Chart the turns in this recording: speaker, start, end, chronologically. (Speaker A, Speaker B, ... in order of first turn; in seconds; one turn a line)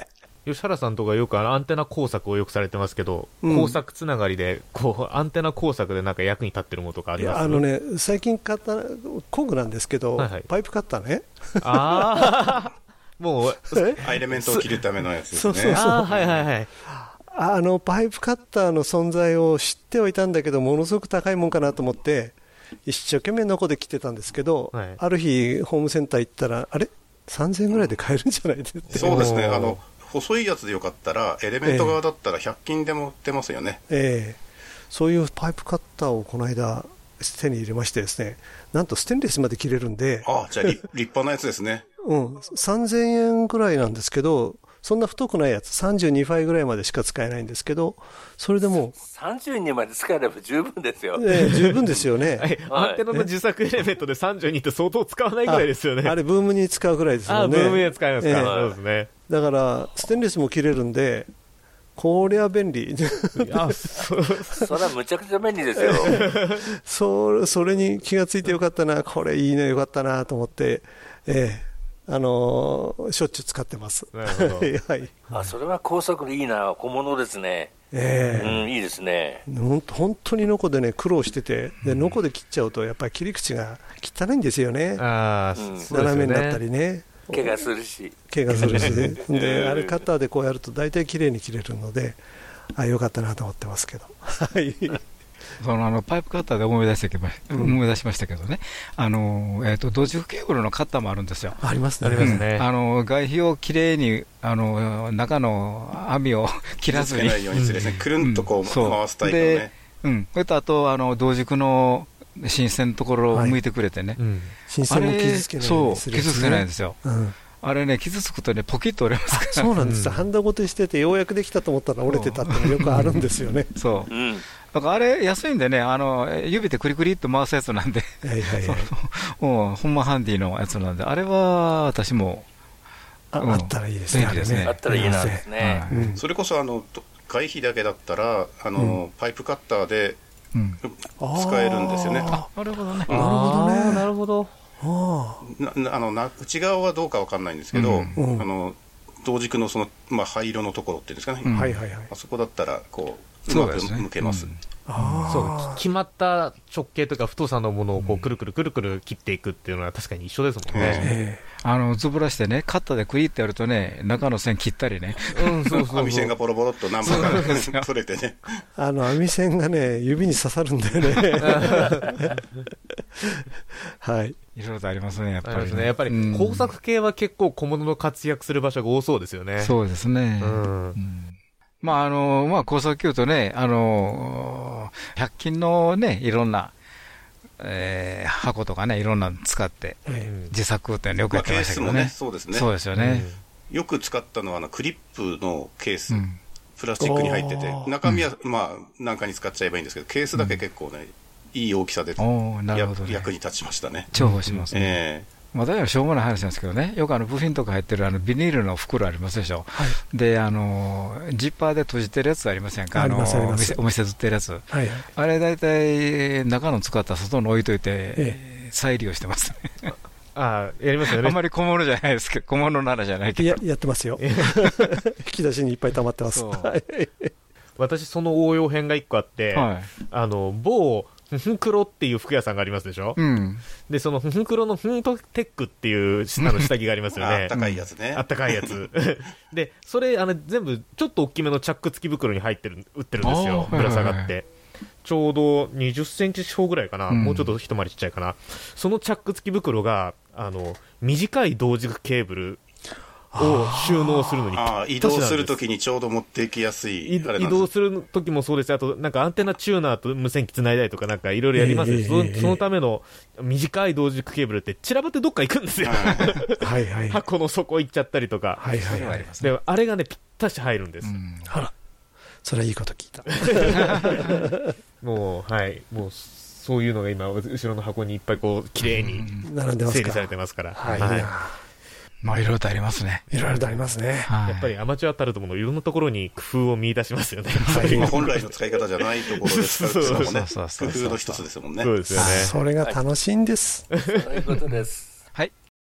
Speaker A: 0.5-7.6
Speaker B: 3.4-3.8
Speaker B: 7.2-12.6
Speaker A: 10.2-10.5
Speaker A: 11.6-14.8
Speaker C: 14.0-16.4
Speaker B: 15.3-16.2
Speaker A: 15.7-16.7
Speaker B: 16.9-29.4
Speaker A: 24.7-25.0
Speaker A: 28.9-29.8
Speaker C: 28.9-33.8
Speaker B: 31.6-32.0
Speaker B: 33.9-40.7
Speaker C: 40.2-41.9
Speaker B: 42.0-48.9
Speaker D: 48.9-51.2
Speaker B: 51.1-52.5
Speaker A: 51.3-51.8
Speaker A: 52.4-56.2
Speaker D: 52.7-53.0
Speaker B: 55.5-58.5
Speaker A: 57.3-59.1
Speaker D: 58.3-58.8
Speaker B: 59.3-61.3
Speaker B: 62.0-64.0
Speaker A: 63.4-64.7
Speaker D: 64.6-66.3
Speaker A: 66.0-66.6
Speaker B: 66.0-75.1
Speaker A: 74.1-74.7
Speaker D: 75.3-77.7
Speaker B: 77.9-78.7
Speaker D: 78.4-79.4
Speaker B: 79.5-85.0
Speaker A: 85.0-86.6
Speaker D: 85.6-86.0
Speaker B: 85.9-87.6
Speaker D: 87.3-88.2
Speaker B: 88.3-92.2
Speaker A: 88.5-89.2
Speaker D: 89.3-90.0
Speaker B: 92.7-95.0
Speaker E: 95.6-101.6
Speaker B: 97.5-97.8
Speaker B: 101.6-102.4
Speaker A: 102.0-102.7
Speaker E: 102.2-107.6
Speaker C: 106.9-109.7
Speaker A: 107.5-108.0
Speaker E: 108.2-114.2
Speaker A: 114.2-114.5
Speaker B: 114.7-117.3
Speaker E: 114.9-117.0
Speaker E: 117.6-119.7
Speaker B: 119.3-123.7
Speaker A: 119.8-120.3
Speaker E: 122.1-124.1
Speaker D: 124.1-124.4
Speaker E: 124.6-132.5
Speaker B: 128.2-128.9
Speaker B: 133.3-136.2
Speaker E: 133.4-136.2
Speaker D: 134.2-135.8
Speaker C: 136.2-140.2
Speaker E: 140.5-140.8
Speaker C: 140.8-142.4
Speaker B: 141.2-142.5
Speaker E: 142.3-143.1
Speaker B: 143.1-144.1
Speaker A: 143.1-144.5
Speaker B: 144.8-145.4
Speaker C: 145.4-154.5
Speaker E: 147.7-148.2
Speaker B: 148.1-148.5
Speaker E: 151.4-151.8
Speaker B: 151.5-152.1
Speaker E: 153.5-155.4
Speaker B: 154.9-155.8
Speaker A: 155.3-161.1
Speaker E: 158.0-158.2
Speaker C: 160.7-161.1
Speaker B: 161.0-161.4
Speaker E: 161.6-165.7
Speaker A: 165.3-166.3
Speaker C: 165.7-168.6
Speaker E: 167.0-167.9
Speaker A: 167.1-167.4
Speaker B: 168.8-172.3
Speaker A: 171.4-172.0
Speaker B: 174.0-174.4
Speaker E: 174.6-176.7
Speaker A: 175.4-179.7
Speaker E: 179.6-186.7
Speaker A: 180.4-181.0
Speaker E: 187.6-193.3
Speaker A: 190.2-190.5
Speaker C: 191.3-192.7
Speaker A: 192.9-193.4
Speaker C: 193.7-196.2
Speaker E: 196.1-196.4
Speaker C: 196.8-205.3
Speaker B: 197.0-197.9
Speaker E: 200.3-200.6
Speaker E: 202.2-203.3
Speaker E: 204.1-205.0
Speaker A: 204.2-204.6
Speaker E: 205.5-219.9
Speaker B: 212.9-213.8
Speaker B: 214.7-215.1
Speaker A: 220.3-221.4
Speaker E: 221.1-223.6
Speaker B: 223.4-227.3
Speaker A: 224.2-224.9
Speaker E: 226.3-226.7
Speaker A: 227.8-233.2
Speaker E: 229.5-229.9
Speaker E: 233.2-233.7
Speaker A: 233.8-237.5
Speaker C: 237.2-238.7
Speaker E: 237.5-237.8
Speaker A: 238.1-244.5
Speaker E: 243.2-244.3
Speaker A: 245.0-252.6
Speaker E: 247.1-247.5
Speaker B: 253.3-254.5
Speaker A: 253.4-255.6
Speaker C: 254.5-257.7
Speaker A: 257.1-271.1
Speaker B: 261.5-262.6
Speaker C: 265.8-266.4
Speaker B: 266.6-267.2
Speaker B: 268.6-269.1
Speaker E: 268.8-269.5
Speaker E: 271.0-271.5
Speaker B: 272.4-274.7
Speaker A: 273.4-274.0
Speaker E: 273.7-274.4
Speaker A: 275.0-279.2
Speaker E: 278.9-279.5
Speaker B: 279.4-281.6
Speaker A: 279.9-281.3
Speaker E: 282.2-283.6
Speaker B: 283.3-284.3
Speaker E: 284.2-284.7
Speaker A: 284.4-290.4
Speaker B: 287.7-288.2
Speaker C: 287.7-292.1
Speaker E: 290.1-291.4
Speaker A: 291.8-292.6
Speaker E: 292.1-292.5
Speaker B: 292.2-293.9
Speaker A: 293.9-294.2
Speaker D: 294.0-295.2